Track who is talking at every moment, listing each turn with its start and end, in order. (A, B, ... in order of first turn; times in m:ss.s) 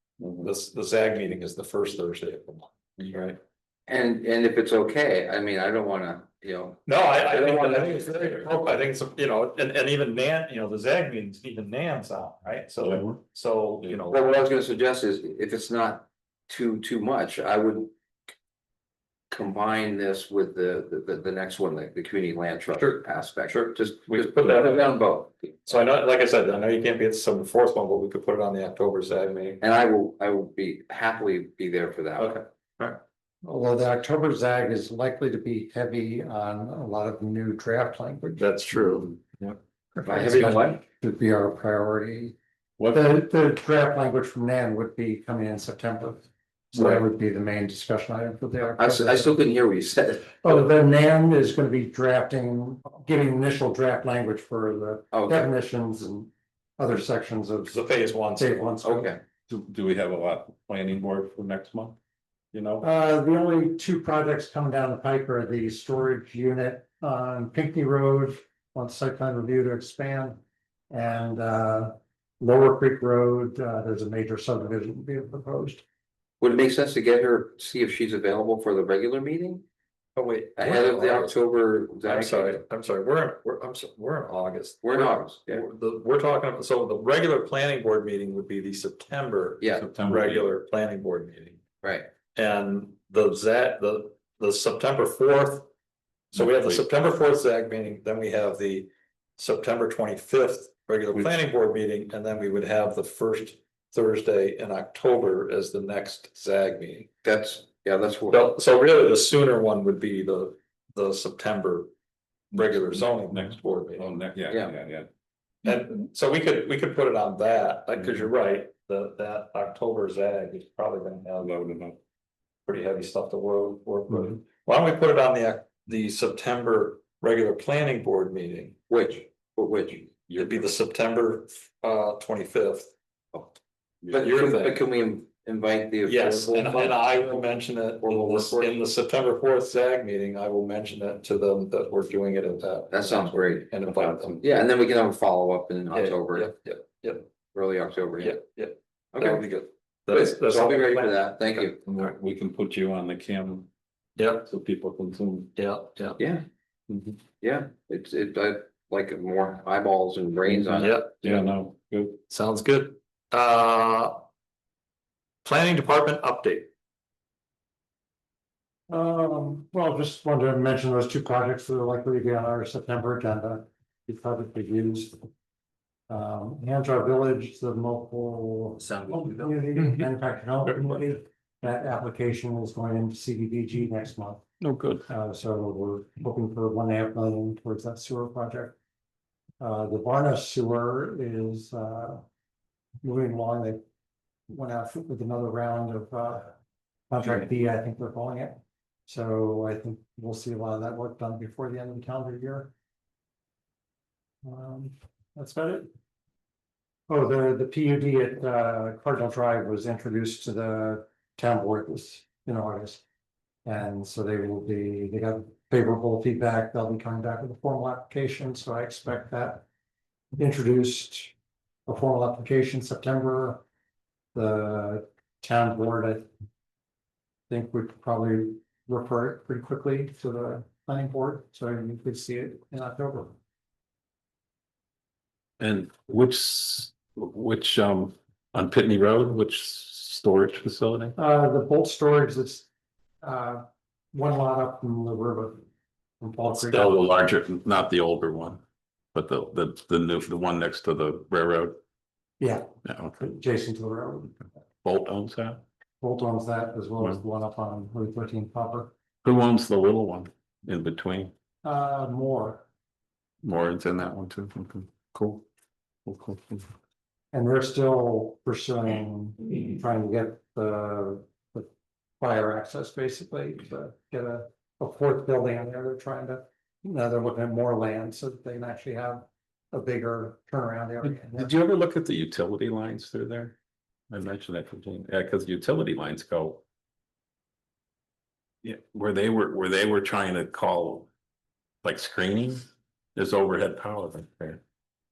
0:00.4-0:03.4 A
0:03.9-0:08.8 B
0:06.9-0:14.2 A
0:14.1-0:17.9 B
0:19.3-0:25.6 B
0:22.7-0:25.0 A
0:25.6-0:29.6 A
0:29.6-0:32.4 B
0:32.2-0:33.0 A
0:33.4-0:38.5 C
0:38.4-0:39.6 A
0:39.9-0:42.4 C
0:40.0-0:40.8 B
0:40.1-0:40.7 A
0:42.8-0:43.1 D
0:42.9-0:49.3 C
0:46.8-0:47.0 A
0:48.8-0:50.7 B
0:50.4-0:57.8 C
0:55.1-0:55.5 B
0:57.6-0:58.8 A
0:58.3-0:59.2 C
0:58.8-0:59.2 B
0:59.5-1:02.0 D
1:02.5-1:02.8 D
1:02.8-1:15.8 C
1:16.4-1:19.6 B
1:20.2-1:21.4 A
1:20.6-1:22.6 B
1:22.0-1:31.6 A
1:24.8-1:25.6 B
1:29.7-1:30.5 D
1:31.8-1:32.1 B
1:32.3-1:35.7 A
1:36.3-1:47.1 A
1:36.3-1:36.8 D
1:47.2-1:48.4 B
1:48.3-1:51.9 A
1:52.5-1:54.1 A
1:52.5-1:55.1 D
1:55.6-2:01.6 A
2:01.4-2:02.0 D
2:02.6-2:08.8 A
2:08.9-2:10.1 B
2:10.3-2:10.7 D
2:10.4-2:12.9 A
2:14.1-2:17.4 B
2:14.1-2:14.8 A
2:16.0-2:24.4 A
2:18.0-2:18.7 B
2:22.9-2:23.7 B
2:23.8-2:24.5 D
2:24.4-2:26.5 B
2:25.9-2:27.3 A
2:27.5-2:28.4 B
2:28.2-2:29.5 A
2:29.1-2:31.8 B
2:30.1-2:31.6 A
2:31.8-2:33.7 D
2:34.2-2:34.5 A
2:34.4-2:35.6 D
2:35.6-2:36.2 A
2:36.2-2:36.4 B
2:36.9-2:37.2 D
2:37.4-2:41.0 B
2:40.5-2:42.2 D
2:40.8-2:41.4 A
2:42.3-2:44.2 A
2:45.4-2:46.7 A
2:48.9-2:55.2 C
2:56.1-3:04.5 C
2:58.8-2:59.5 B
3:04.6-3:05.0 D
3:05.1-3:08.8 C
3:09.6-3:12.2 C
3:13.0-3:13.8 C
3:14.5-3:16.5 C
3:17.1-3:22.7 C
3:24.4-3:25.9 C
3:27.1-3:33.0 C
3:33.6-3:39.6 C
3:40.4-3:41.3 C
3:41.8-3:43.6 C
3:44.3-3:46.3 C
3:47.5-3:53.4 C
3:55.6-4:01.1 D
4:01.2-4:02.6 C
4:03.2-4:05.6 C
4:06.2-4:07.0 C
4:06.4-4:08.6 D
4:09.1-4:11.8 D
4:12.4-4:14.4 C
4:12.8-4:13.2 D
4:14.8-4:15.6 D
4:16.0-4:18.9 C
4:19.2-4:21.3 D
4:21.6-4:22.6 C
4:23.4-4:25.4 D
4:26.0-4:26.7 D
4:27.3-4:41.5 C
4:41.3-4:43.5 D
4:44.1-4:46.6 D
4:48.6-4:51.1 D
4:51.8-4:54.6 D